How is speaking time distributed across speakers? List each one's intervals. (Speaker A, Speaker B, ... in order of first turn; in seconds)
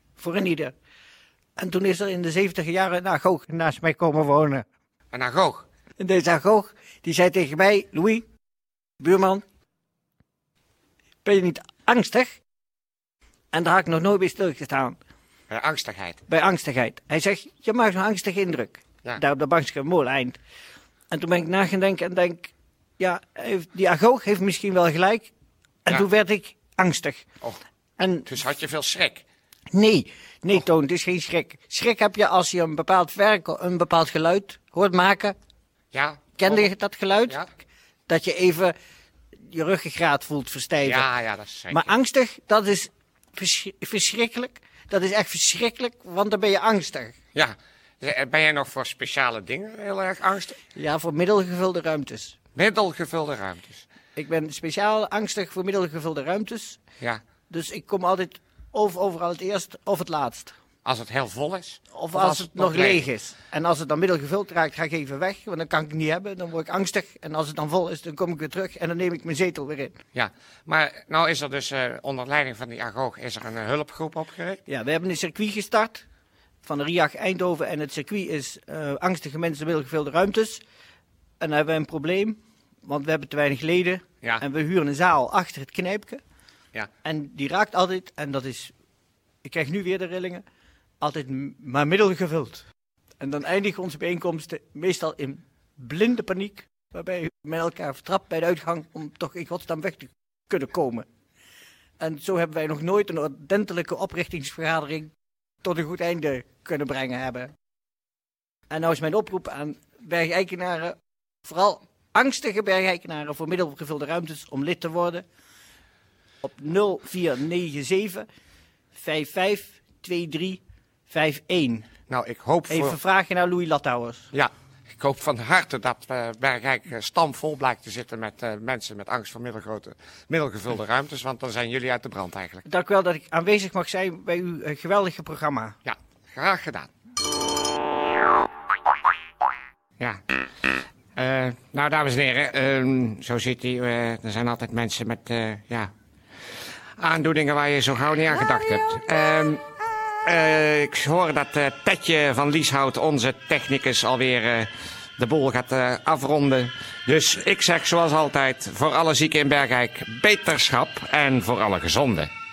Speaker A: 0.2-0.7, 1.6-4.6, 6.0-8.2, 9.0-9.4, 11.2-12.4, 13.5-15.0, 16.3-20.4, 21.1-25.3, 25.9-27.3, 28.0-28.3, 29.7-35.4, 36.4-37.5, 38.1-38.8, 39.5-41.1, 41.7-47.1, 50.8-52.4, 54.2-56.8, 57.5-60.5, 61.9-70.0, 74.7-76.0, 76.6-80.6, 81.4-86.2, 87.0-88.7, 89.4-90.4, 91.0-92.7, 93.2-101.0, 102.0-105.1, 105.6-107.5, 108.7-115.2, 116.4-118.3, 118.9-121.9, 122.7-124.3, 132.7-135.8
Speaker B: 5.1-5.7, 15.5-16.2, 28.3-29.2, 35.9-36.7, 40.8-41.9, 47.4-50.6, 52.6-53.8, 60.9-63.1, 70.1-74.6, 122.1-123.0, 124.3-132.6, 135.8-136.9, 140.0-145.9, 147.0-149.6, 150.2-162.3